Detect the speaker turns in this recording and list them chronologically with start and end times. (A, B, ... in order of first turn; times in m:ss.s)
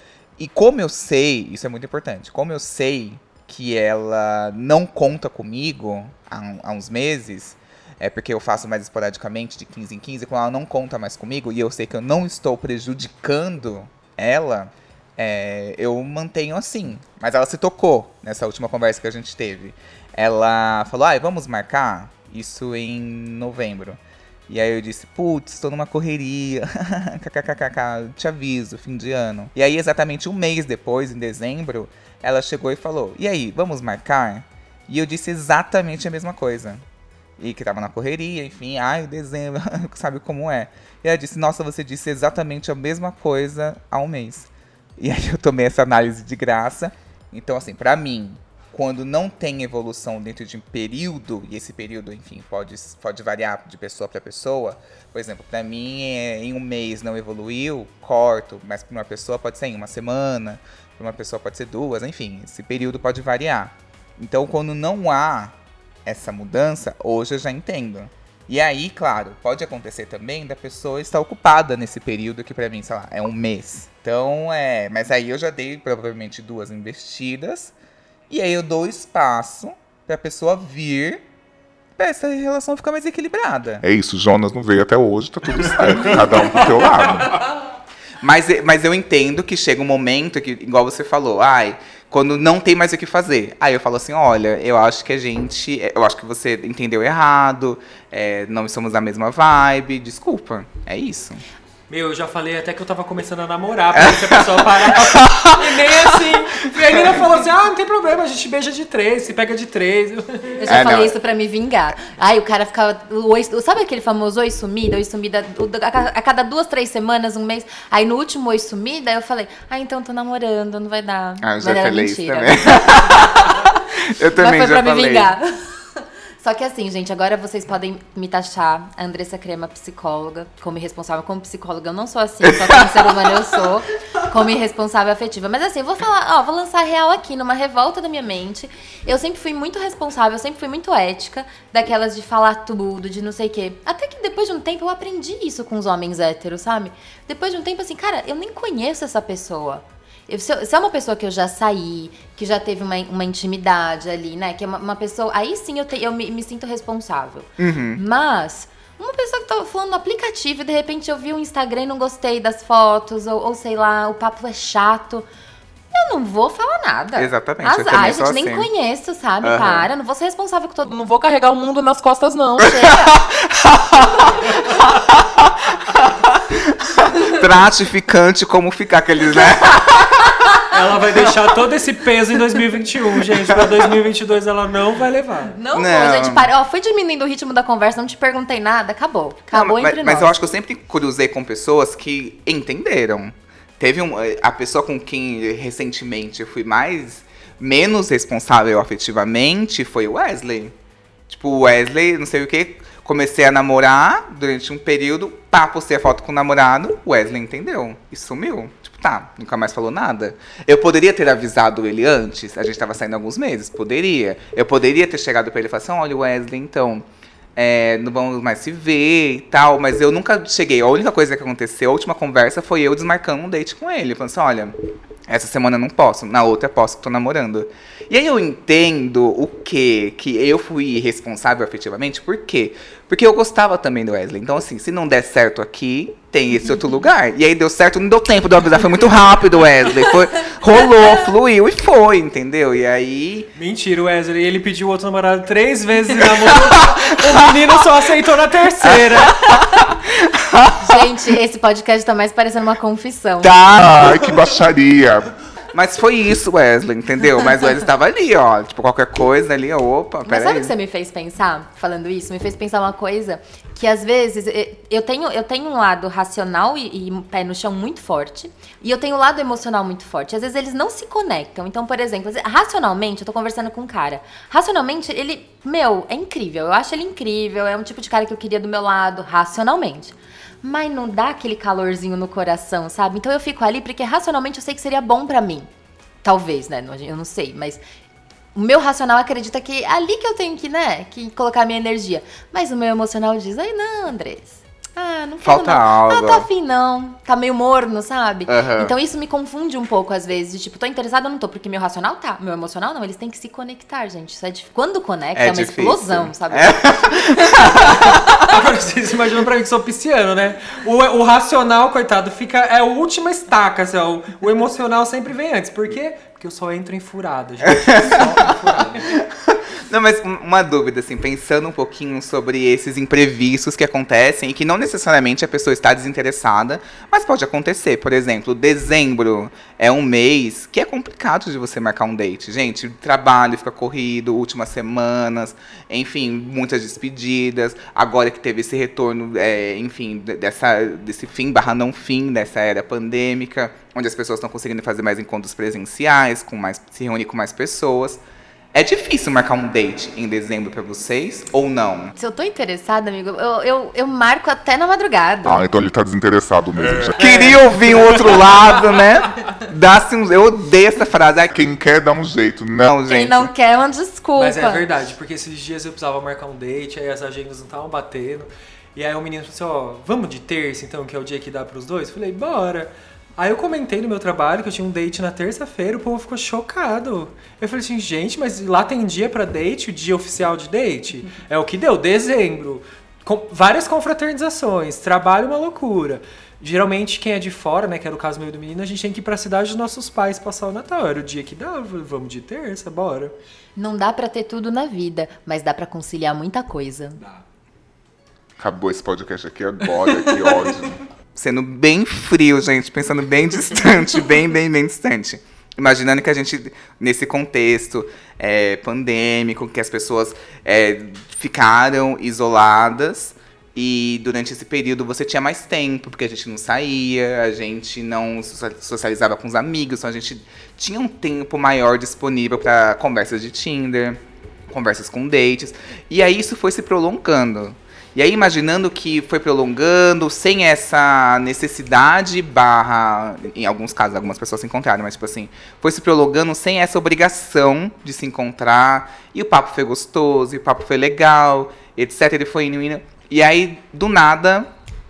0:00.4-0:36.8 A
0:37.4-1:05.5 A
1:06.0-1:17.7 A
1:18.3-1:21.2 A
1:22.0-1:23.8 A
1:23.8-1:27.4 B
1:28.2-1:41.4 A
1:41.9-1:50.8 C
1:44.0-1:47.0 A
1:50.6-2:03.3 D
1:50.6-1:51.1 A
2:01.4-2:05.3 A
2:04.4-2:45.3 D
2:37.6-2:38.0 A
2:45.9-2:50.9 D
2:47.2-2:48.7 A
2:49.4-2:49.9 A
2:50.8-2:52.9 E
2:52.6-2:53.1 D
2:53.1-3:00.3 A
3:00.7-3:05.5 C
3:05.5-3:10.3 D
3:05.7-3:06.5 A
3:09.5-3:20.7 A
3:21.3-3:44.7 A
3:45.3-4:03.5 A
4:03.5-4:09.7 C
4:09.3-4:10.9 A
4:10.8-4:13.5 D
4:13.4-4:14.3 A
4:13.7-4:15.3 B
4:15.7-4:20.7 A
4:20.2-4:45.7 D
4:46.2-4:47.8 D
4:48.5-5:07.9 D
4:55.4-4:56.5 A
4:58.5-4:58.9 A
5:05.3-5:08.2 A
5:08.4-5:19.1 C
5:17.6-5:18.5 A
5:19.1-5:48.2 A
5:48.7-5:52.1 A
5:52.2-5:55.6 D
5:55.4-5:57.2 B
5:57.2-5:58.4 C
5:57.2-6:01.5 A
6:01.5-6:02.9 B
6:02.8-6:03.5 A
6:03.1-6:04.8 D
6:04.4-6:33.3 C
6:33.8-6:37.2 D
6:37.2-6:37.4 C
6:38.6-6:41.0 B
6:41.4-7:24.7 A